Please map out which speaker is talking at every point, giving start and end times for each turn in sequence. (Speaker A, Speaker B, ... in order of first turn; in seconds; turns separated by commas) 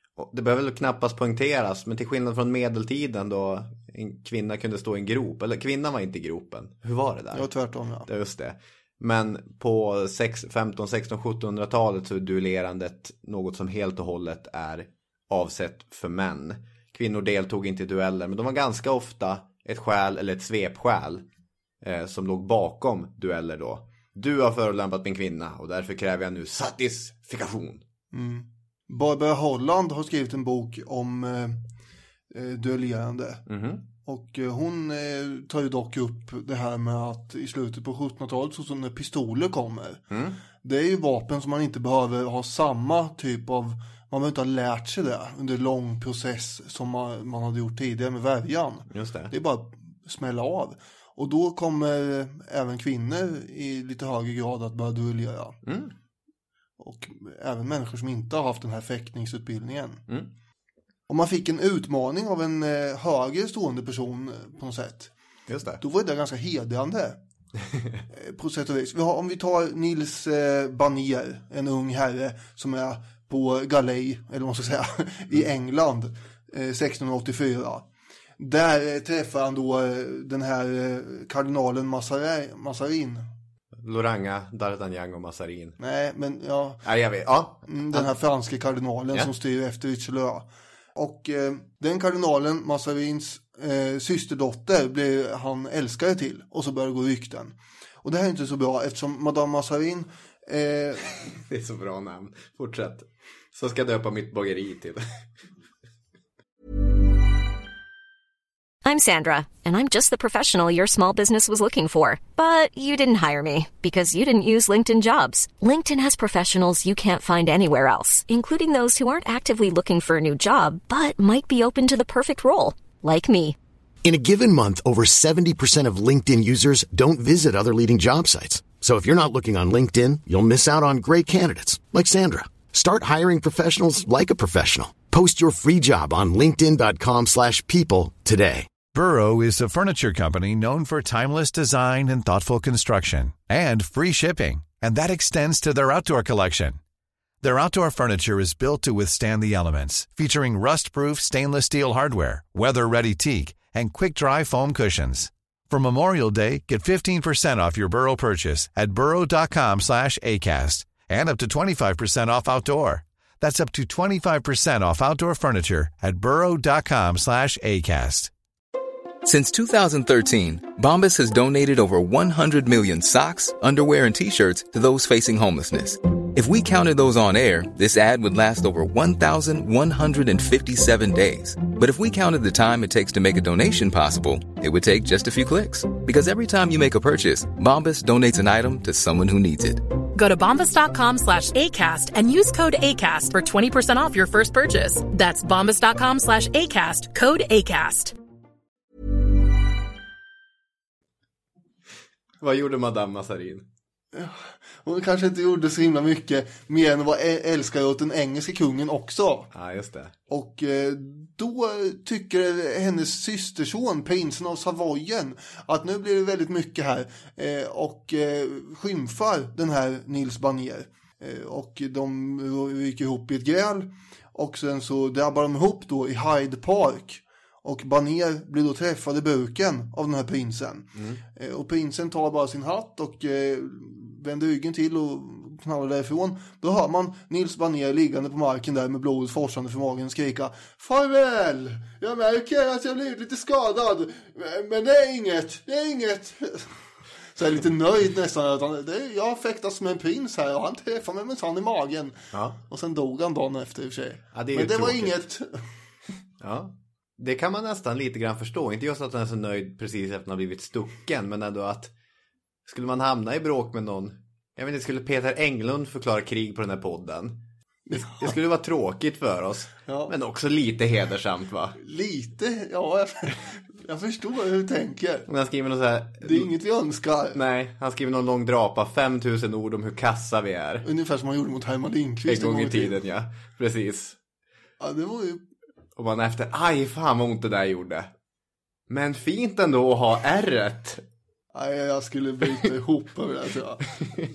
Speaker A: 0.2-7.5, Speaker B: 7.3-8.1, Speaker A: 8.0-21.2, Speaker A: 21.8-27.8, Speaker B: 28.1-31.6, Speaker B: 32.3-33.4, Speaker A: 33.5-33.8, Speaker B: 34.0-40.0, Speaker A: 40.1-40.4, Speaker B: 40.6-55.6, Speaker A: 48.9-49.3, Speaker A: 55.6-55.9, Speaker B: 56.8-60.0, Speaker B: 61.1-65.1, Speaker A: 65.5-65.8, Speaker B: 65.8-67.2, Speaker B: 68.1-77.8, Speaker B: 78.4-83.3, Speaker A: 83.7-85.8, Speaker B: 85.8-86.8, Speaker A: 86.8-88.2, Speaker B: 87.7-101.1, Speaker A: 101.5-105.0, Speaker C: 108.8-123.6, Speaker D: 124.0-138.7, Speaker E: 138.9-146.8, Speaker E: 147.4-168.3, Speaker F: 169.2-189.8, Speaker G: 190.1-198.1, Speaker A: 202.4-203.7, Speaker B: 204.1-209.5, Speaker A: 209.5-210.1, Speaker B: 210.3-246.8, Speaker A: 230.9-231.2, Speaker B: 247.3-255.6, Speaker A: 252.3-252.6, Speaker A: 254.3-255.2, Speaker A: 256.4-261.9, Speaker A: 262.6-271.8, Speaker B: 267.9-268.3, Speaker B: 269.9-270.1, Speaker B: 271.8-275.3, Speaker A: 275.3-276.5, Speaker B: 276.2-277.4, Speaker A: 277.3-280.9, Speaker B: 280.8-282.9, Speaker A: 282.3-284.2, Speaker B: 284.8-285.4, Speaker A: 285.9-288.1, Speaker A: 288.9-291.0, Speaker B: 291.5-293.9